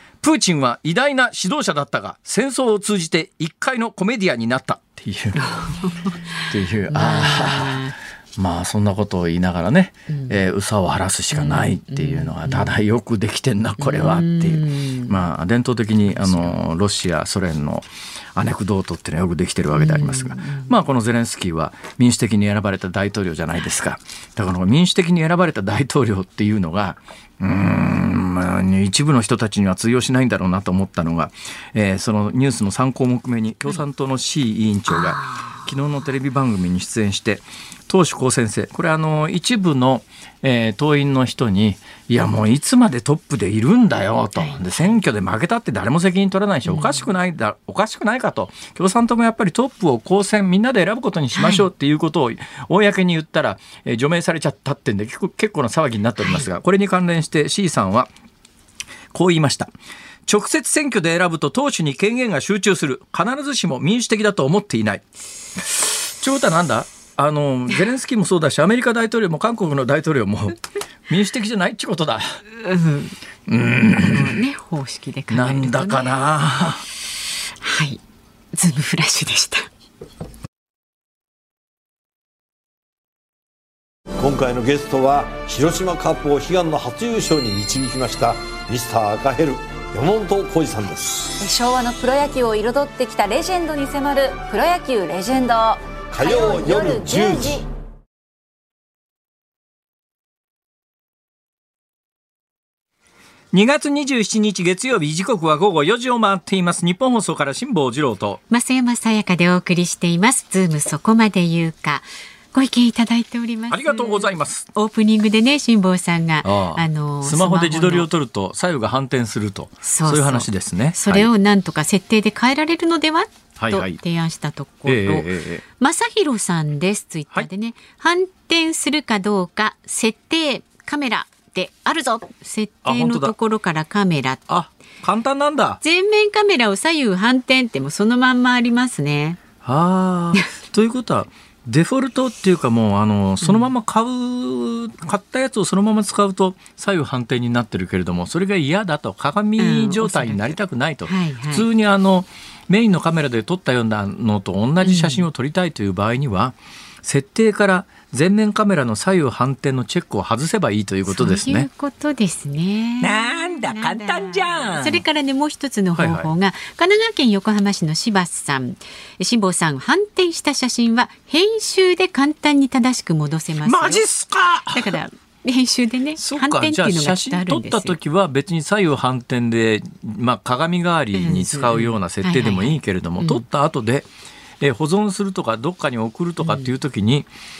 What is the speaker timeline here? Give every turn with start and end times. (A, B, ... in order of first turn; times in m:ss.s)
0:00.2-0:05.6 A
0:05.3-0:07.9 B
0:06.5-0:07.8 A
0:08.4-0:58.1 A
0:10.1-0:10.4 B
0:11.3-0:12.8 B
0:13.8-0:15.1 B
0:16.0-0:16.6 B
0:19.7-0:20.7 B
0:34.9-0:35.7 B
0:44.4-0:44.8 B
0:46.6-0:47.0 B
0:51.3-0:51.7 B
0:56.2-0:56.4 B
0:59.1-0:59.7 A
1:00.2-1:05.0 A
1:05.6-1:12.4 A
1:12.5-1:13.2 B
1:13.5-1:14.4 A
1:14.0-1:16.2 B
1:15.3-1:16.8 A
1:17.6-1:18.0 B
1:18.5-1:19.7 B
1:24.2-1:31.2 C
1:31.4-1:37.6 D
1:36.1-1:37.6 C
1:43.5-1:48.4 A
1:48.5-1:58.1 B
1:53.7-1:54.7 A
1:56.4-2:01.3 A
1:59.8-2:14.4 B
2:03.6-2:04.0 A
2:04.8-2:05.6 A
2:12.8-2:13.3 A
2:14.5-2:15.8 A
2:15.8-2:19.4 B
2:19.6-2:41.7 A
2:23.4-2:23.7 B
2:29.6-2:30.5 B
2:31.0-2:31.7 B
2:34.8-2:35.2 B
2:41.1-2:54.0 B
2:43.0-2:45.0 A
2:45.9-2:46.3 A
2:53.6-2:55.0 A
2:54.7-2:58.0 B
2:56.2-3:04.1 A
3:01.1-3:03.4 B
3:04.6-3:07.3 A
3:06.4-3:06.7 B